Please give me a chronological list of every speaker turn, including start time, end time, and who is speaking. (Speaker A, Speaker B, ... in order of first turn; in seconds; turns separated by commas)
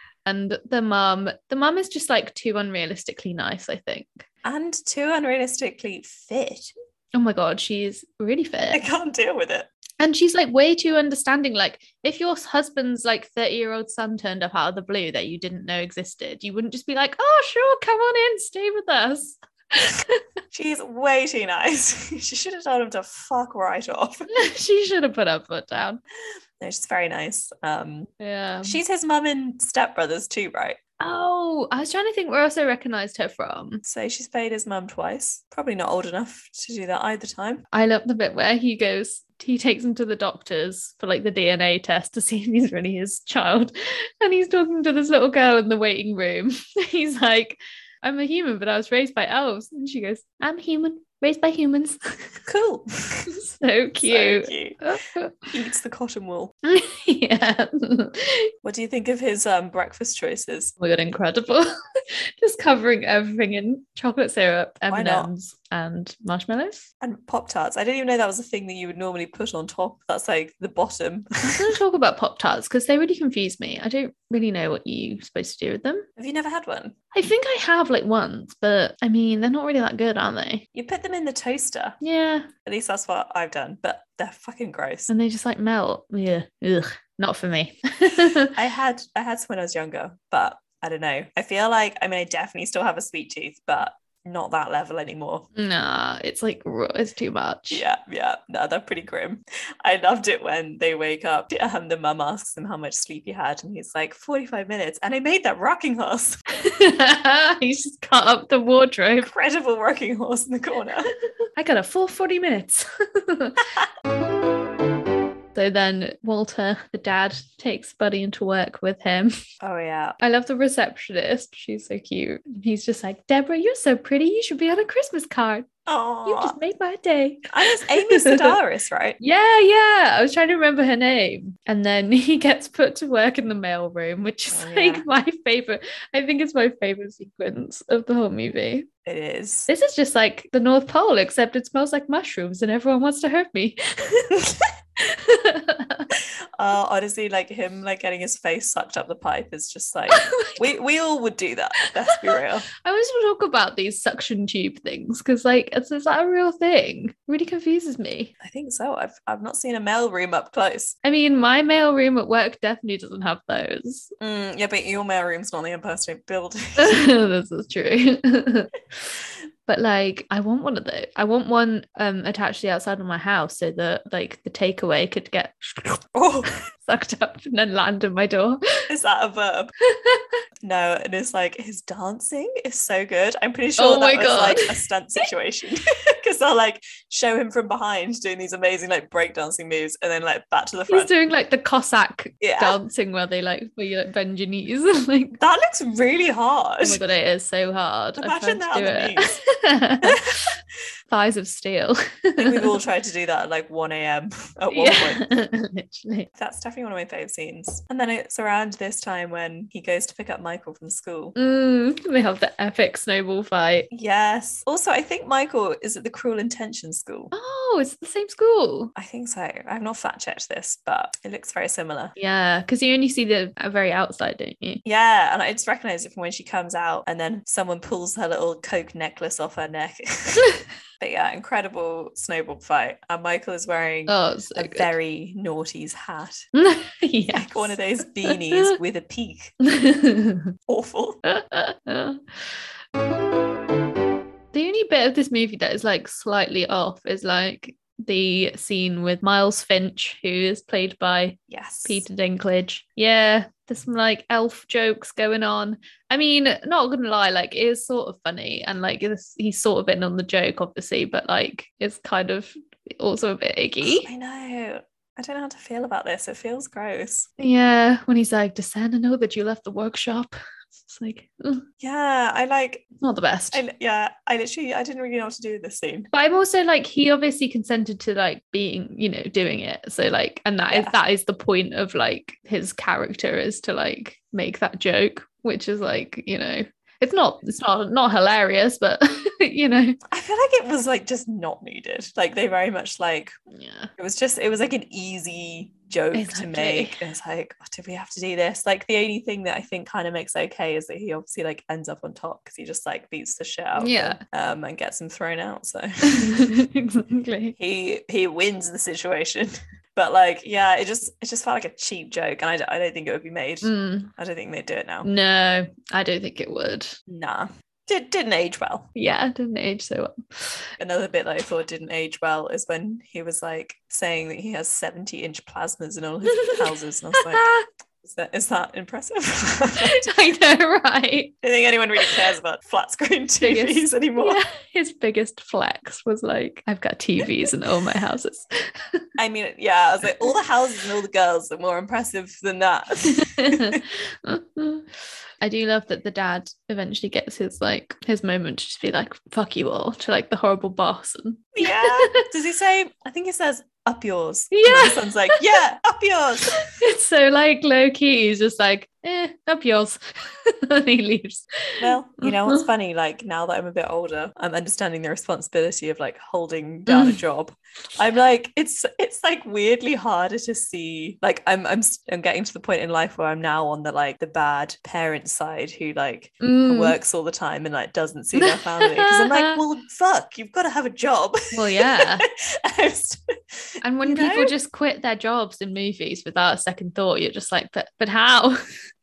Speaker A: 0.2-4.2, Speaker B: 4.4-6.7, Speaker A: 7.1-8.8, Speaker B: 8.7-9.7, Speaker A: 10.0-20.2, Speaker B: 20.5-24.3, Speaker A: 24.3-26.0, Speaker B: 26.6-28.1, Speaker A: 28.2-28.8, Speaker B: 28.6-30.8, Speaker A: 31.0-33.8, Speaker B: 33.8-37.6, Speaker A: 37.7-52.4, Speaker B: 52.5-53.4, Speaker A: 53.3-55.5, Speaker B: 54.0-54.8, Speaker B: 55.5-56.5, Speaker A: 56.6-58.5, Speaker B: 58.6-60.7, Speaker A: 60.8-66.9, Speaker B: 64.9-65.3, Speaker B: 67.0-71.8, Speaker A: 71.4-76.1, Speaker B: 76.2-77.0, Speaker A: 77.1-80.7, Speaker B: 80.7-82.0, Speaker A: 82.0-82.5, Speaker B: 82.7-85.1, Speaker A: 85.1-88.5, Speaker B: 88.5-95.5, Speaker A: 95.5-97.8, Speaker B: 97.7-106.4, Speaker A: 106.6-109.3, Speaker B: 109.2-111.1, Speaker A: 111.6-113.7, Speaker A: 115.5-119.3, Speaker B: 119.6-120.2, Speaker A: 120.2-125.7, Speaker B: 125.9-126.6, Speaker A: 126.2-128.6, Speaker B: 127.5-129.2, Speaker A: 129.2-138.9, Speaker B: 134.5-135.1, Speaker B: 139.1-139.7, Speaker A: 139.7-146.1, Speaker B: 146.1-152.7, Speaker A: 150.1-150.6, Speaker A: 152.1-158.3, Speaker B: 158.4-161.0, Speaker A: 161.0-164.1, Speaker B: 164.2-167.1, Speaker A: 166.8-168.7, Speaker A: 169.7-176.1, Speaker B: 176.2-176.5, Speaker A: 176.8-178.9, Speaker B: 178.9-179.7, Speaker A: 179.9-180.3, Speaker B: 180.6-191.1, Speaker A: 183.8-185.2, Speaker A: 190.9-195.4, Speaker B: 192.4-192.8, Speaker B: 195.4-197.0, Speaker A: 196.8-200.6, Speaker B: 198.2-199.4, Speaker B: 200.0-200.5, Speaker A: 201.1-202.8, Speaker B: 202.4-205.3, Speaker A: 204.7-206.3, Speaker B: 206.3-211.3, Speaker A: 211.4-213.9, Speaker B: 213.9-217.3, Speaker A: 217.3-218.9, Speaker B: 219.0-222.1, Speaker A: 222.2-224.8, Speaker B: 224.8-236.5, Speaker A: 234.1-234.9, Speaker A: 236.5-238.7, Speaker B: 237.3-239.5, Speaker A: 239.6-240.5, Speaker B: 240.7-241.2, Speaker A: 241.2-242.5, Speaker A: 244.5-264.1, Speaker B: 251.5-252.1, Speaker B: 263.8-267.3, Speaker A: 267.4-271.6, Speaker B: 271.8-272.8, Speaker A: 273.0-273.6, Speaker B: 273.5-276.1, Speaker A: 276.1-290.0, Speaker B: 280.7-281.0, Speaker B: 290.1-293.3, Speaker A: 293.5-293.9, Speaker B: 294.0-306.5, Speaker A: 296.1-297.1, Speaker A: 303.8-304.2, Speaker A: 306.0-307.6, Speaker B: 307.6-315.1, Speaker A: 313.6-314.1, Speaker A: 315.0-317.0, Speaker B: 317.1-318.9, Speaker A: 318.9-320.7, Speaker B: 320.8-327.5, Speaker A: 326.3-326.6, Speaker A: 327.2-327.6, Speaker B: 328.0-330.1, Speaker A: 329.8-331.4, Speaker B: 331.4-334.4, Speaker A: 333.4-339.1, Speaker B: 339.2-343.8, Speaker A: 343.1-344.9, Speaker A: 345.4-352.3, Speaker B: 351.6-356.7, Speaker A: 354.5-355.4, Speaker A: 356.5-362.6, Speaker B: 361.8-384.5, Speaker A: 366.9-367.2, Speaker A: 376.4-377.0, Speaker A: 378.4-379.6, Speaker A: 381.5-382.2, Speaker A: 383.8-388.6